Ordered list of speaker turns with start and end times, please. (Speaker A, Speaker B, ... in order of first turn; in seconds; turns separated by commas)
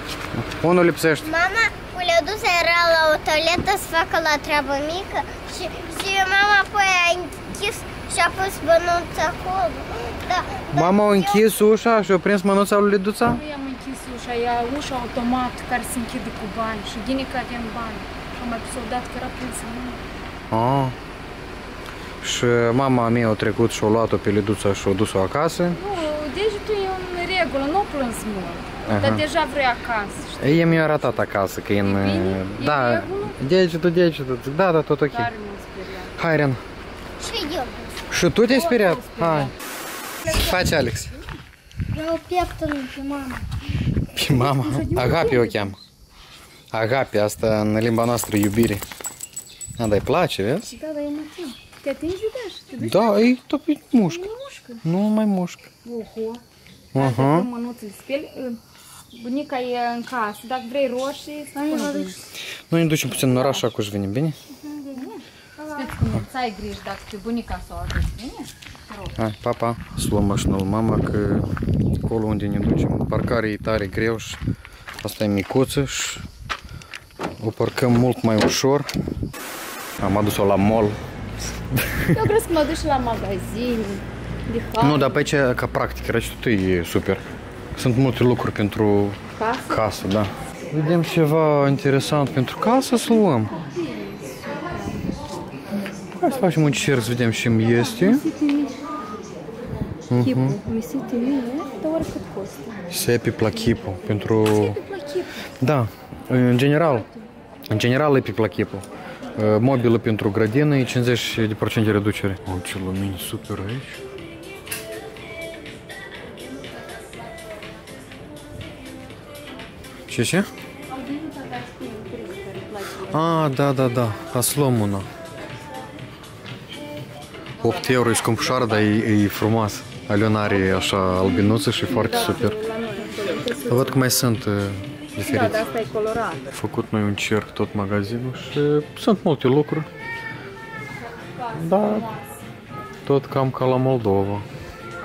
Speaker A: 0.3-1.3, Speaker B: 1.4-10.7, Speaker A: 10.7-13.4, Speaker C: 13.2-20.0, Speaker A: 20.5-20.9, Speaker A: 22.2-25.8, Speaker C: 25.7-31.2, Speaker A: 28.8-29.2, Speaker A: 30.4-35.3, Speaker C: 31.8-33.4, Speaker C: 35.1-36.1, Speaker A: 36.1-36.6, Speaker B: 37.2-37.9, Speaker A: 38.1-39.5, Speaker C: 38.5-39.5, Speaker A: 40.2-41.1, Speaker B: 41.9-43.4, Speaker A: 44.1-45.8, Speaker C: 44.3-45.8, Speaker A: 46.7-48.8, Speaker A: 49.8-50.8, Speaker C: 50.7-53.4, Speaker A: 52.8-54.2, Speaker C: 54.0-54.8, Speaker A: 54.8-55.7, Speaker C: 55.8-56.4, Speaker A: 56.9-57.5, Speaker C: 56.9-58.6, Speaker C: 59.1-62.2, Speaker B: 61.6-62.1, Speaker A: 62.7-64.3, Speaker C: 63.1-63.6, Speaker B: 64.8-65.1, Speaker C: 64.9-69.2, Speaker A: 69.2-71.5, Speaker A: 72.0-74.4, Speaker A: 75.0-76.2, Speaker A: 77.4-78.9, Speaker A: 80.0-81.0, Speaker A: 81.8-82.2, Speaker C: 82.1-85.2, Speaker A: 84.8-87.2, Speaker A: 87.8-93.6, Speaker C: 89.3-89.8, Speaker C: 93.5-95.2, Speaker A: 96.2-98.2, Speaker C: 97.7-98.8, Speaker A: 100.1-100.6, Speaker C: 100.2-102.9, Speaker A: 102.9-104.8, Speaker C: 104.4-105.5, Speaker A: 105.6-107.1, Speaker A: 107.7-108.8, Speaker A: 109.3-114.0, Speaker A: 120.1-120.5, Speaker C: 120.9-123.7, Speaker A: 123.1-125.1, Speaker A: 127.6-132.6, Speaker C: 130.9-134.0, Speaker A: 133.7-135.7, Speaker C: 135.2-136.5, Speaker A: 136.5-139.9, Speaker C: 141.0-142.4, Speaker A: 141.6-142.1, Speaker A: 143.0-144.4